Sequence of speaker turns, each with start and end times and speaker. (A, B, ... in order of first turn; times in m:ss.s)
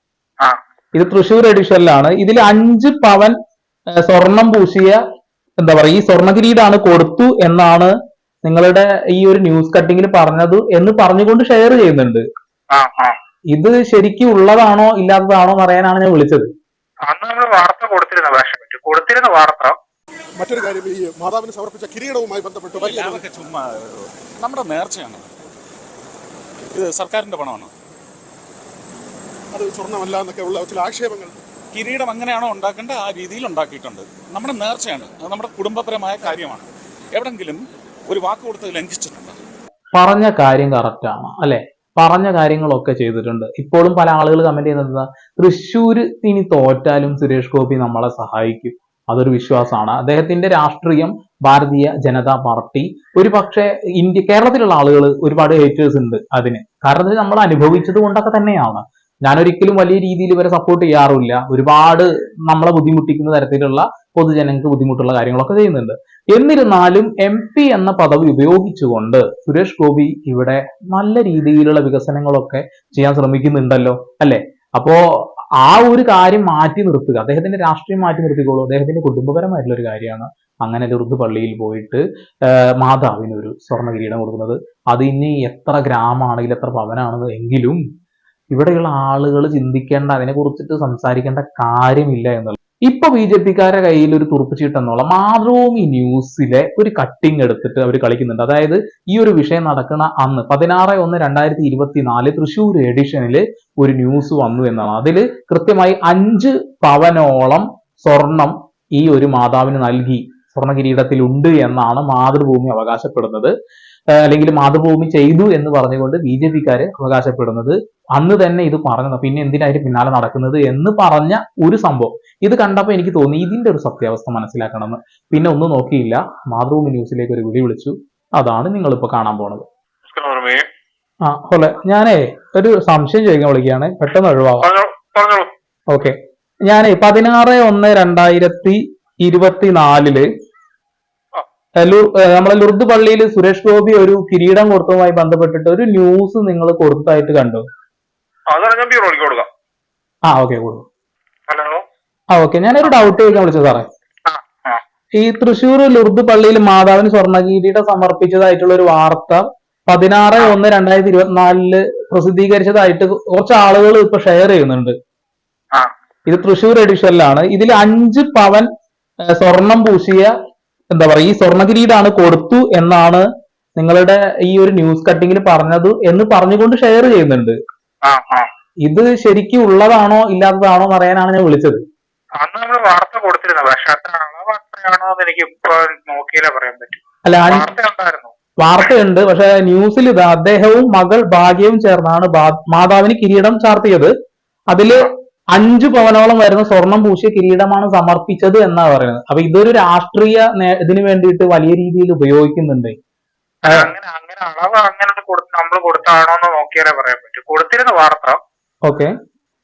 0:01.0-0:03.3 A
0:04.0-0:05.0 A
0:05.6-0:07.9 A
0:08.4-0:12.2 A
0:12.7-0:13.2 B
0:13.5-0:16.5 A
0:17.1-0:19.8 B
0:20.3-0:23.2 C
0:22.8-0:25.3 D
0:26.7-0:27.7 D
0:29.5-0:31.4 C
0:31.7-0:39.4 D
0:40.0-1:27.8 A
1:28.5-1:53.5 A
1:54.2-2:09.6 A
2:10.1-2:10.7 B
2:11.2-2:14.7 A
2:14.6-2:15.5 B
2:15.9-2:20.3 A
2:21.8-2:27.6 A
2:28.5-2:29.5 B
2:30.3-2:30.9 A
2:31.5-2:31.8 B
2:32.3-2:33.9 A
2:32.8-2:33.2 B
2:34.3-2:34.8 B
2:35.2-2:45.0 A
2:46.3-2:48.7 A
2:49.3-2:50.3 A
2:50.9-2:53.2 A
2:53.8-2:57.6 A
2:58.1-2:58.5 B
2:58.8-3:01.8 A
3:02.4-3:08.3 B
3:07.3-3:07.6 A
3:08.6-3:14.1 A
3:14.7-3:23.0 A
3:23.7-3:28.4 B